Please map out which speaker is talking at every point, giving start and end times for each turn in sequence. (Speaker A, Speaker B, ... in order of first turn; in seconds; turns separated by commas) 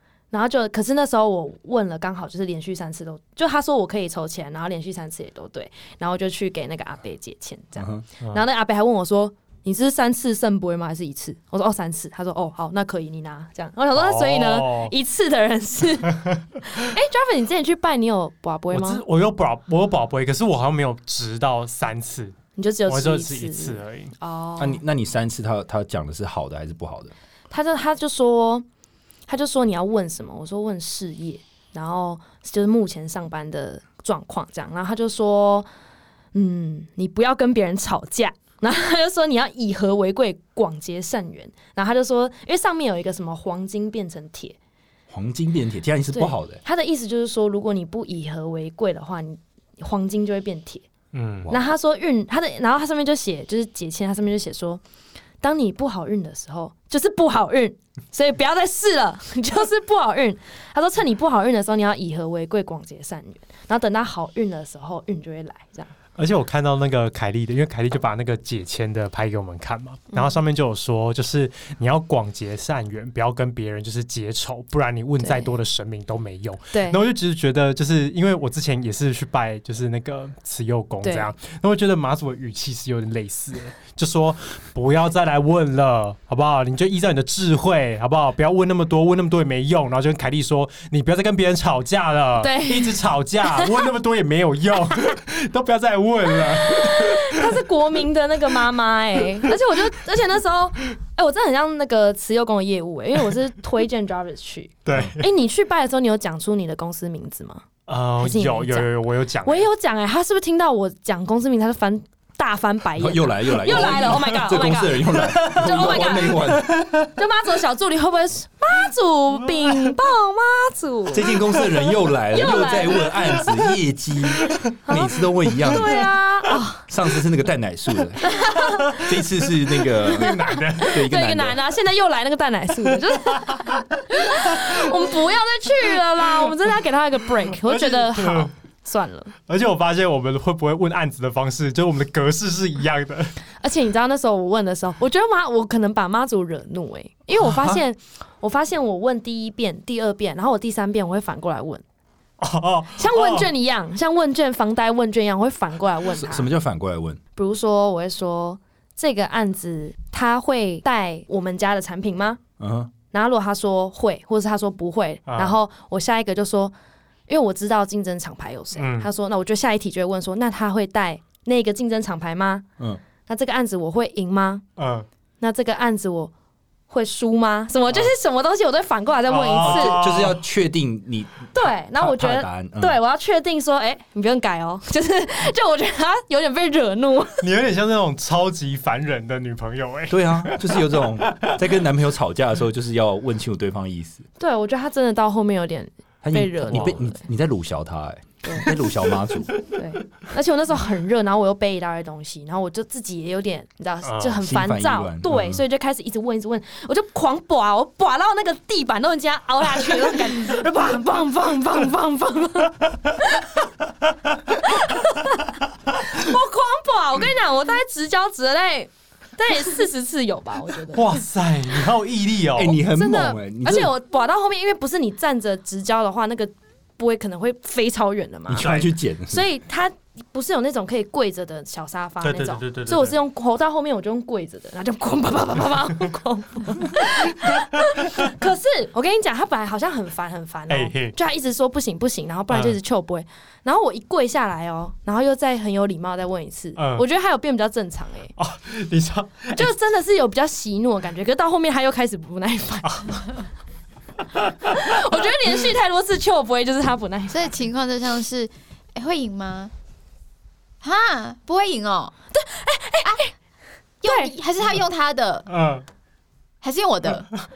Speaker A: 0.3-19.0, Speaker B: 7.8-8.0, Speaker C: 13.9-14.9, Speaker C: 18.7-24.1, Speaker A: 22.6-24.8, Speaker B: 24.6-27.1, Speaker A: 27.5-28.6, Speaker A: 29.3-35.6, Speaker A: 36.3-44.6, Speaker B: 45.1-46.6, Speaker A: 46.1-50.9, Speaker C: 51.1-51.5, Speaker A: 51.5-54.8, Speaker A: 55.4-65.9, Speaker C: 66.2-97.6, Speaker A: 70.1-70.4, Speaker A: 75.2-75.5, Speaker A: 76.7-77.0, Speaker A: 81.0-81.3, Speaker A: 92.4-93.0, Speaker A: 96.5-107.6, Speaker C: 104.8-105.3, Speaker C: 107.9-109.7, Speaker A: 108.2-108.9, Speaker A: 109.4-121.6, Speaker B: 113.0-116.7, Speaker C: 113.6-114.4, Speaker C: 115.3-117.0, Speaker B: 121.1-126.1, Speaker A: 122.3-123.5, Speaker A: 124.7-126.9, Speaker B: 126.9-128.3, Speaker A: 128.2-129.0, Speaker B: 128.9-131.6, Speaker A: 129.8-139.3, Speaker C: 130.0-131.0, Speaker C: 132.9-133.7, Speaker C: 134.5-135.0, Speaker C: 137.5-138.5, Speaker C: 139.5-143.4, Speaker A: 143.6-151.8, Speaker B: 147.4-147.8, Speaker C: 152.4-153.5, Speaker A: 152.9-156.5, Speaker B: 156.1-157.2, Speaker A: 157.3-162.4, Speaker B: 162.6-162.9, Speaker A: 163.1-166.7, Speaker C: 165.3-165.6, Speaker A: 167.3-172.6, Speaker C: 168.8-169.1, Speaker A: 173.3-174.6, Speaker C: 174.8-175.1, Speaker A: 175.4-176.3, Speaker A: 176.9-180.0, Speaker C: 179.3-180.4, Speaker B: 179.6-182.9, Speaker A: 181.5-187.5, Speaker C: 187.4-191.5, Speaker B: 190.1-194.2, Speaker A: 194.4-197.2, Speaker B: 196.2-199.5, Speaker C: 196.7-197.0, Speaker A: 198.4-198.7, Speaker A: 199.6-213.6, Speaker C: 204.0-204.4, Speaker B: 204.4-205.6, Speaker A: 214.5-221.1, Speaker C: 220.9-222.8, Speaker B: 222.6-223.9, Speaker A: 222.9-228.8, Speaker B: 228.5-229.4, Speaker C: 228.6-228.9, Speaker A: 229.3-248.3, Speaker C: 232.2-233.2, Speaker C: 240.7-241.2, Speaker C: 242.5-242.8, Speaker C: 246.8-247.1, Speaker C: 248.3-249.7, Speaker A: 249.5-253.4, Speaker A: 254.5-257.5, Speaker D: 257.3-259.7, Speaker D: 260.8-262.1, Speaker A: 262.3-263.3, Speaker D: 264.0-265.5, Speaker A: 264.0-264.3, Speaker C: 265.5-265.8, Speaker D: 266.6-267.3